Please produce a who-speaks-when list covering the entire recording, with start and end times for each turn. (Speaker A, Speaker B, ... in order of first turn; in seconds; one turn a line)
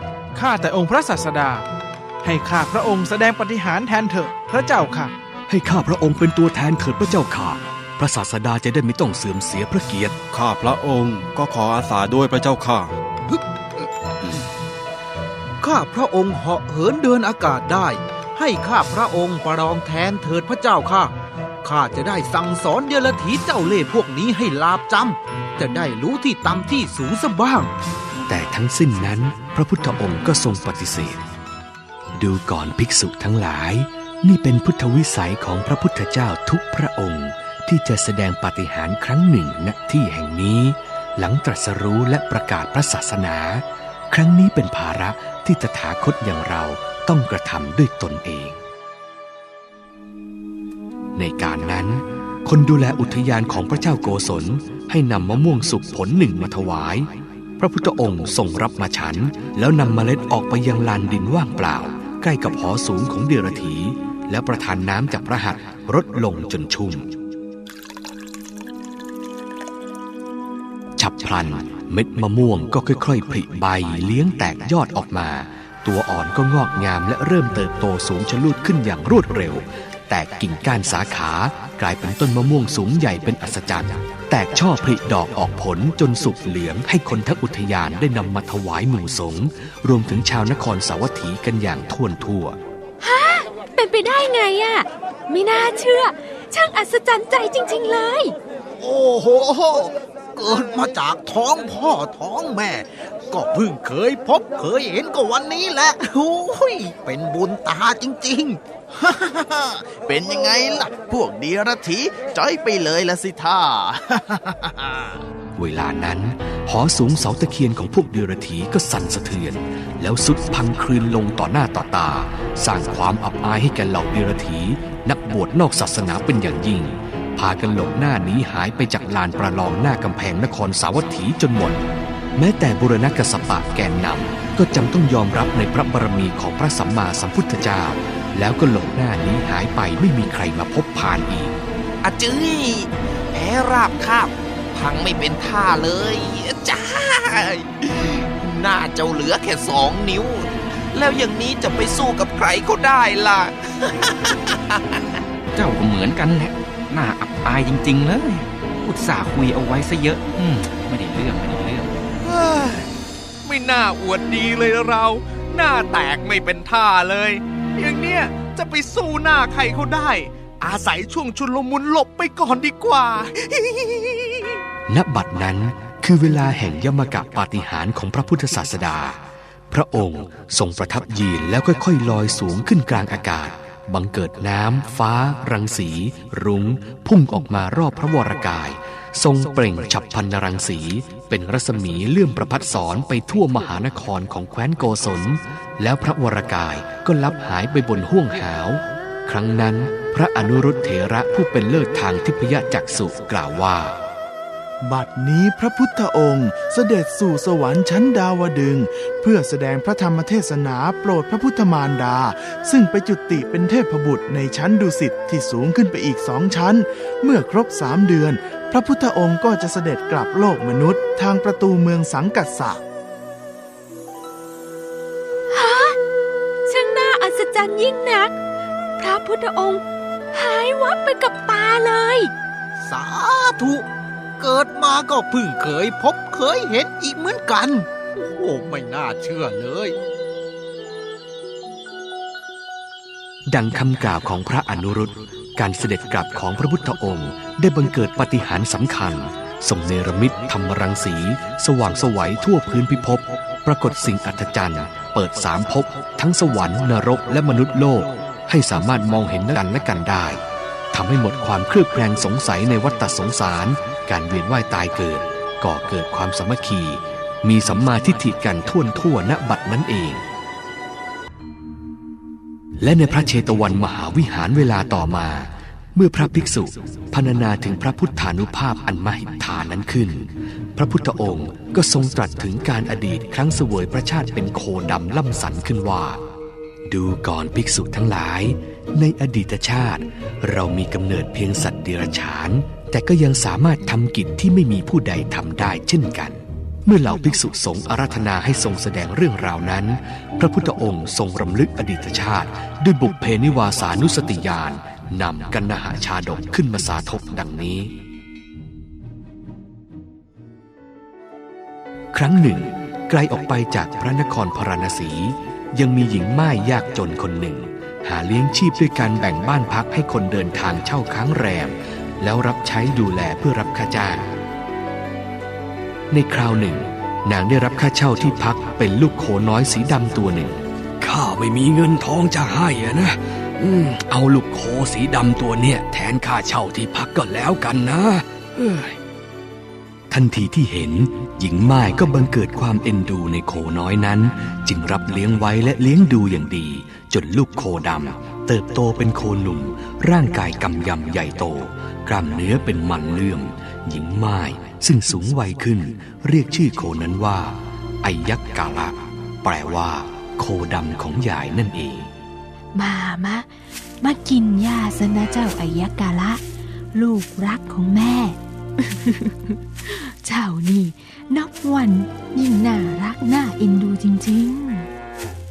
Speaker A: 0.3-1.7
Speaker A: 2.2-5.1
Speaker B: 5.5-10.2
Speaker C: 10.3-12.9
Speaker D: 13.3-13.9
Speaker D: 15.6-21.1
Speaker D: 21.6-27.7
Speaker B: 28.3-31.2
Speaker B: 32.2-48.6
Speaker B: 51.2-67.1
Speaker B: 71.0-92.6
Speaker E: 93.0-98.3
Speaker D: 98.8-108.6
Speaker F: 109.0-115.2
Speaker B: 115.6-131.8
Speaker B: 132.4-141.6
Speaker G: 142.0-155.2
Speaker H: 155.6-162.0
Speaker I: 162.3-162.9
Speaker I: 163.4-174.6
Speaker B: 174.9-179.2
Speaker B: 179.7-203.9
Speaker F: 204.8-222.8
Speaker E: 225.5-226.0
Speaker E: 226.7-228.4
Speaker E: 229.0-232.3
Speaker D: 232.8-233.8
Speaker D: 234.4-240.0
Speaker B: 243.5-260.4
Speaker B: 260.9-270.2
Speaker B: 272.8-286.2
Speaker B: 286.9-307.9
Speaker B: 312.1-324.3
Speaker B: 326.1-339.0
Speaker B: 340.1-362.1
Speaker E: 362.7-363.5
Speaker E: 364.0-366.4
Speaker E: 366.9-374.9